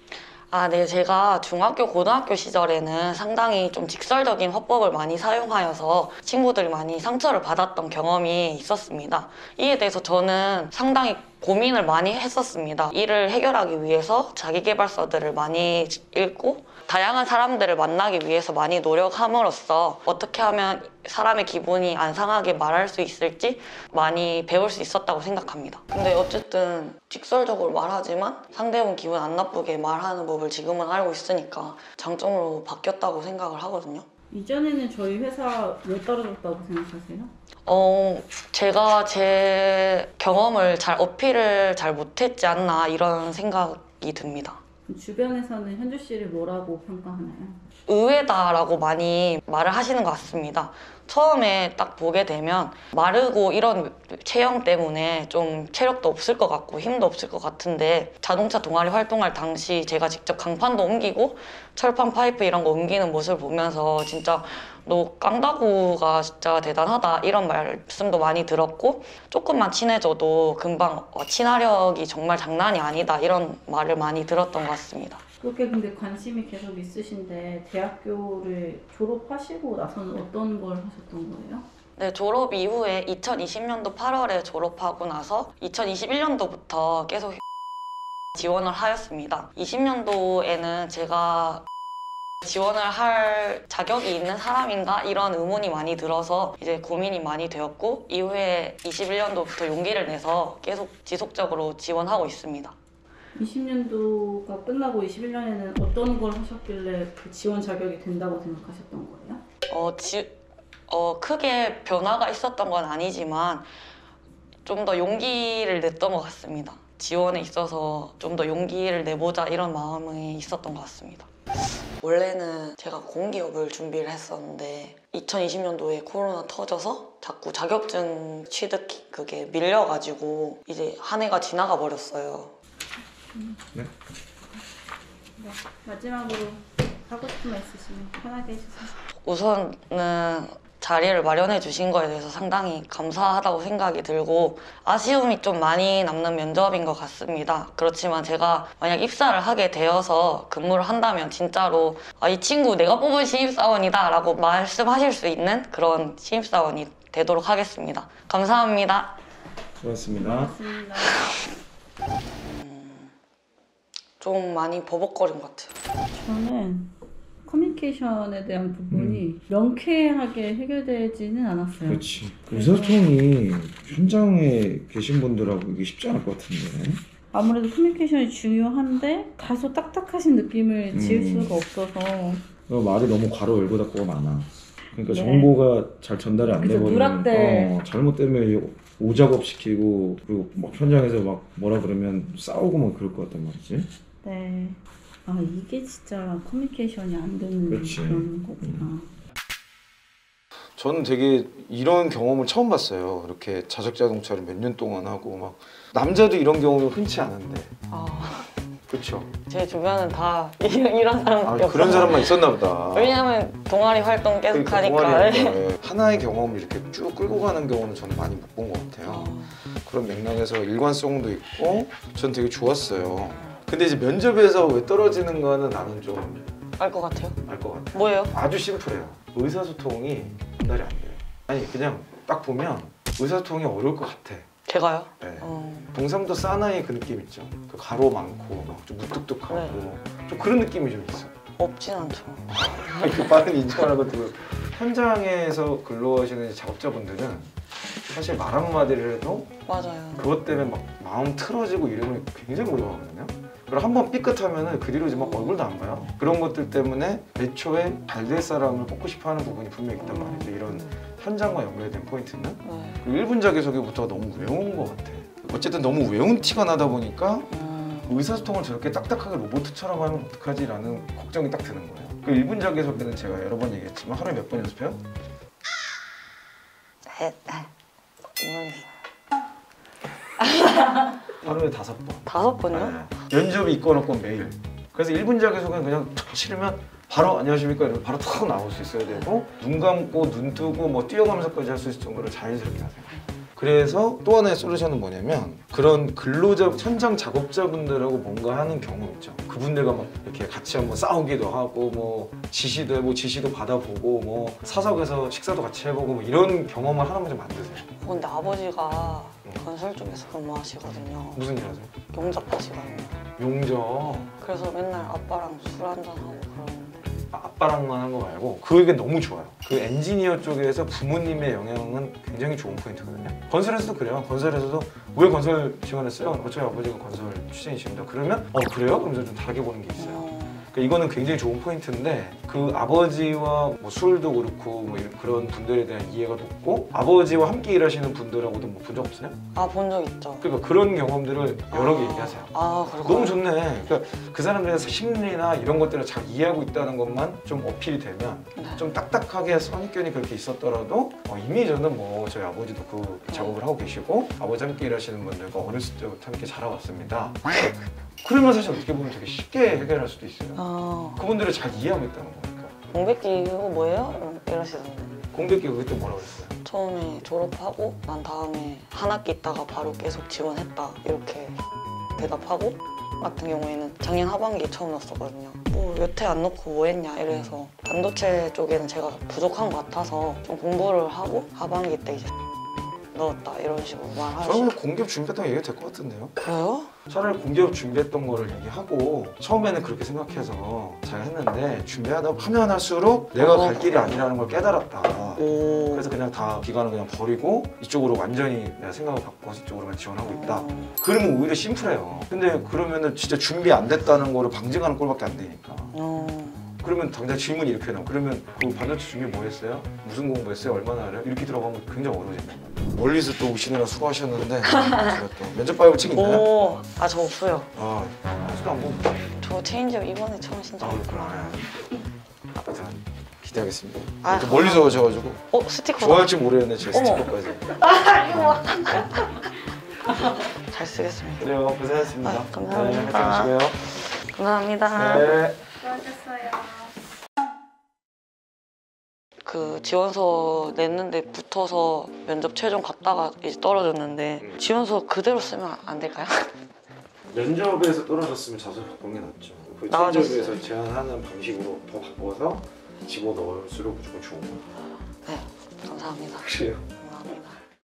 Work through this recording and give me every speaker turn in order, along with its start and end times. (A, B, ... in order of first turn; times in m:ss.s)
0:00.5-0:34.1 A
0:34.3-0:37.3 B
0:37.7-0:44.6 A
0:44.9-0:47.6 B
0:47.9-1:15.2 A
1:15.4-1:21.7 B
1:22.0-1:27.4 A
1:28.4-1:31.6 A
1:32.4-1:42.8 A
1:43.3-1:49.4 B
1:49.7-1:50.4 A
1:50.9-1:53.7 A
1:54.6-2:01.3 A
2:02.0-2:12.5 A
2:13.3-2:13.7 B
2:15.4-2:19.0 B
2:19.2-2:39.2 A
2:39.8-2:40.6 C
2:40.1-2:41.3 B
2:42.4-2:43.1 A
2:44.2-2:45.7 A
2:46.1-2:46.9 B
2:47.4-2:53.1 B
2:48.9-2:49.2 C
2:51.9-2:57.0 C
2:57.3-3:02.4 B
3:00.9-3:01.6 C
3:02.7-3:13.9 C
3:05.1-3:05.5 B
3:06.6-3:07.7 B
3:14.2-3:19.1 B
3:17.7-3:18.9 C
3:20.8-3:27.7 C
3:27.9-3:28.5 A
3:28.9-3:29.3 C
3:29.5-3:35.7 A
3:31.4-3:33.2 C
3:34.5-3:46.5 C
3:39.0-3:39.6 A
3:46.8-3:47.4 A
3:47.4-3:54.5 C
3:47.9-3:48.3 A
3:54.7-3:55.9 A
3:55.2-4:01.3 C
3:59.5-3:59.9 A
4:01.6-4:03.4 A
4:02.6-4:07.5 C
4:08.1-4:09.5 C
4:09.7-4:10.3 A
4:10.2-4:27.5 C
4:15.1-4:15.7 A
4:20.0-4:20.6 A
4:22.6-4:23.0 A
4:27.5-4:28.2 A
4:28.0-4:35.0 C
4:37.1-4:37.7 A
4:38.4-4:38.9 A
4:40.4-4:41.1 A
4:41.4-5:08.0 C
4:42.3-4:43.0 A
5:08.0-5:11.4 A
5:11.3-5:11.9 C
5:12.1-5:13.2 A
5:13.3-5:14.3 C
5:14.4-5:17.1 A
5:17.3-5:39.4 C
5:30.0-5:30.7 A
5:39.5-5:40.4 A
5:40.4-5:57.5 C
5:41.7-5:43.4 A
5:48.6-5:48.8 A
5:53.3-5:53.6 A
5:58.2-6:02.9 C
6:00.6-6:01.2 A
6:02.9-6:05.3 A
6:05.3-6:06.6 C
6:06.6-6:11.6 A
6:12.2-6:22.3 A
6:23.1-6:24.8 A
6:24.4-6:26.3 C
6:26.4-6:26.9 A
6:27.1-6:45.9 C
6:33.4-6:34.3 A
6:35.4-6:36.1 A
6:40.2-6:41.0 A
6:45.9-6:46.7 A
6:46.8-6:56.5 C
6:54.7-6:55.2 A
6:56.1-6:57.7 A
6:57.8-6:59.2 C
6:59.4-7:01.6 A
7:00.8-7:01.8 C
7:02.6-7:05.4 C
7:04.2-7:05.0 A
7:05.5-7:09.5 A
7:06.0-7:07.8 C
7:10.2-7:11.5 A
7:11.4-7:13.9 C
7:12.2-7:15.4 A
7:14.9-7:15.6 C
7:15.8-7:16.9 B
7:19.4-7:26.5 A
7:27.3-7:34.6 C
7:29.9-7:30.6 A
7:35.2-7:37.6 A
7:36.4-7:36.8 C